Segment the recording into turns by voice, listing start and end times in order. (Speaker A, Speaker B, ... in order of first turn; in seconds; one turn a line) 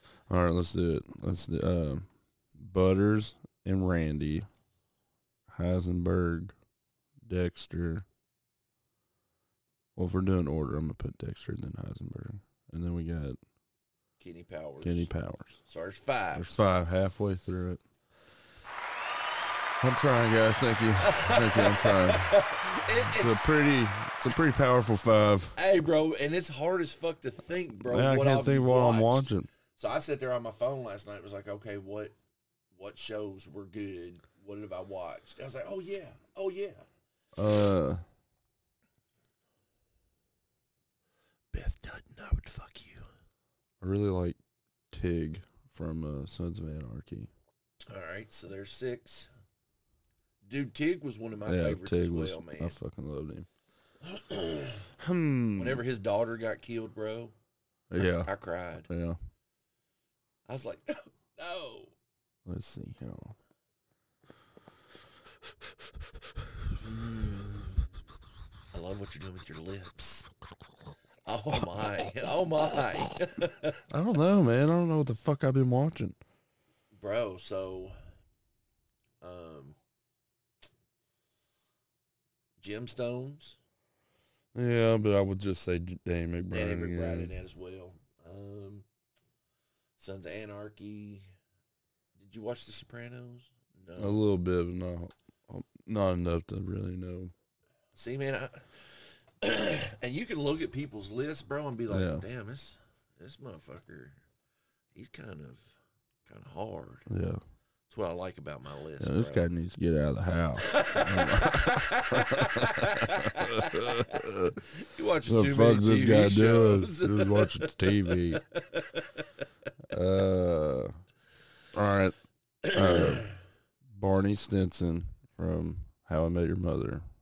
Speaker A: 0.3-4.5
Speaker A: 5.5-6.5
Speaker A: 7.2-8.0
Speaker A: 9.9-13.4
Speaker B: 14.2-15.1
Speaker A: 14.8-15.6
Speaker B: 15.7-16.5
Speaker A: 16.3-17.8
Speaker A: 19.8-22.4
Speaker B: 21.0-23.6
Speaker A: 23.0-25.6
Speaker B: 25.6-32.1
Speaker A: 27.8-29.5
Speaker B: 32.7-36.9
Speaker A: 37.4-38.0
Speaker B: 41.5-43.1
Speaker A: 43.8-44.4
Speaker A: 44.9-47.3
Speaker B: 47.9-49.3
Speaker B: 50.4-52.8
Speaker A: 51.5-53.5
Speaker B: 54.0-54.9
Speaker A: 55.0-55.8
Speaker B: 55.5-57.3
Speaker A: 57.9-58.3
Speaker B: 58.0-58.9
Speaker A: 58.9-59.2
Speaker B: 60.5-61.9
Speaker A: 62.5-63.4
Speaker B: 66.8-67.8
Speaker B: 68.7-70.3
Speaker B: 71.2-73.8
Speaker A: 73.9-76.2
Speaker B: 76.9-78.0
Speaker B: 79.2-79.8
Speaker B: 82.6-83.6
Speaker A: 84.5-87.3
Speaker B: 86.5-88.8
Speaker B: 90.0-91.2
Speaker B: 92.2-94.2
Speaker A: 94.0-97.3
Speaker B: 98.0-104.2
Speaker A: 101.9-102.2
Speaker B: 104.9-105.7
Speaker B: 106.2-107.1
Speaker A: 107.1-107.4
Speaker B: 107.9-109.5
Speaker A: 109.0-114.6
Speaker B: 110.6-119.3
Speaker A: 115.2-118.4
Speaker A: 119.9-121.0
Speaker A: 121.7-122.2
Speaker B: 122.6-123.3
Speaker A: 122.7-123.3
Speaker A: 123.9-127.0